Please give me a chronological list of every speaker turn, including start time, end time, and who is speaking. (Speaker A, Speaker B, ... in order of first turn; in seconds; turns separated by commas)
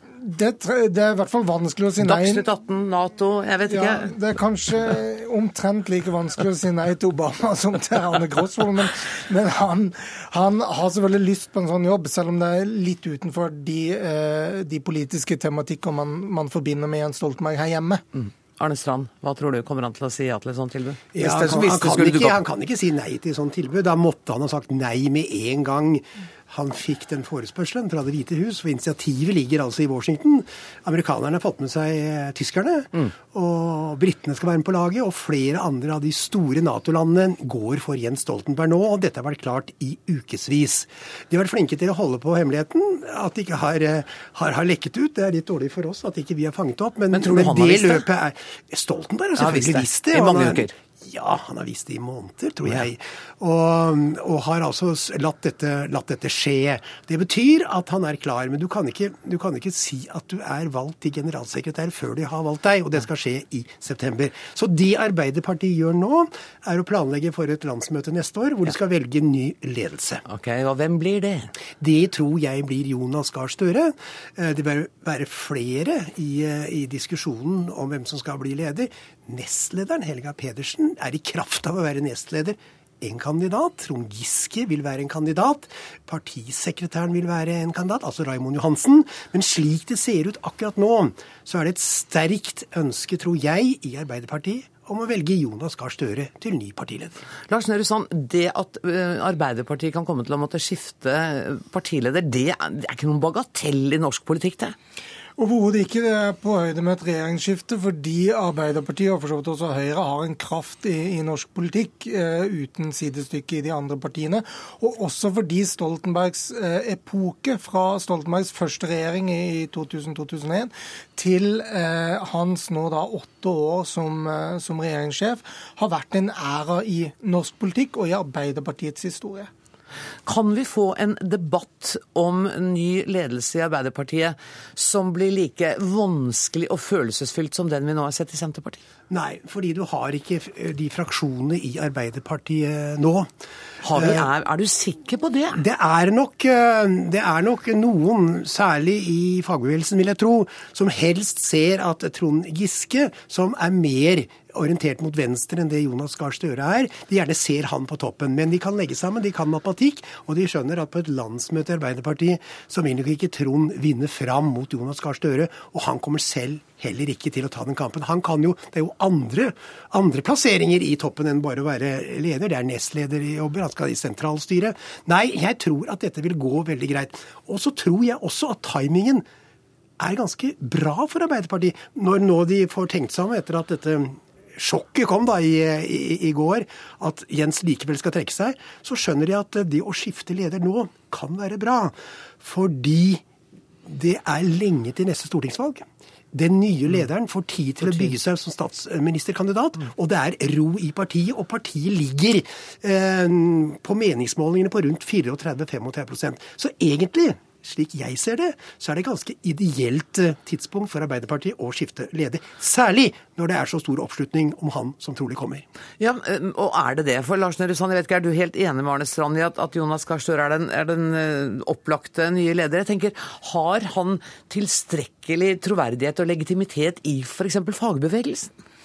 Speaker A: 0.2-2.5, Speaker B: 2.0-4.1, Speaker A: 3.7-18.0, Speaker B: 18.1-22.4, Speaker C: 21.1-70.2, Speaker B: 47.1-48.0, Speaker B: 49.4-50.7, Speaker B: 70.2-71.5, Speaker C: 71.8-97.2, Speaker B: 97.5-104.8, Speaker A: 105.4-129.5, Speaker B: 130.3-138.8, Speaker C: 139.1-143.3, Speaker B: 143.8-145.6, Speaker C: 143.9-144.3, Speaker C: 145.5-179.3, Speaker C: 180.0-193.2, Speaker C: 193.9-215.7, Speaker B: 197.8-198.1, Speaker B: 216.0-228.5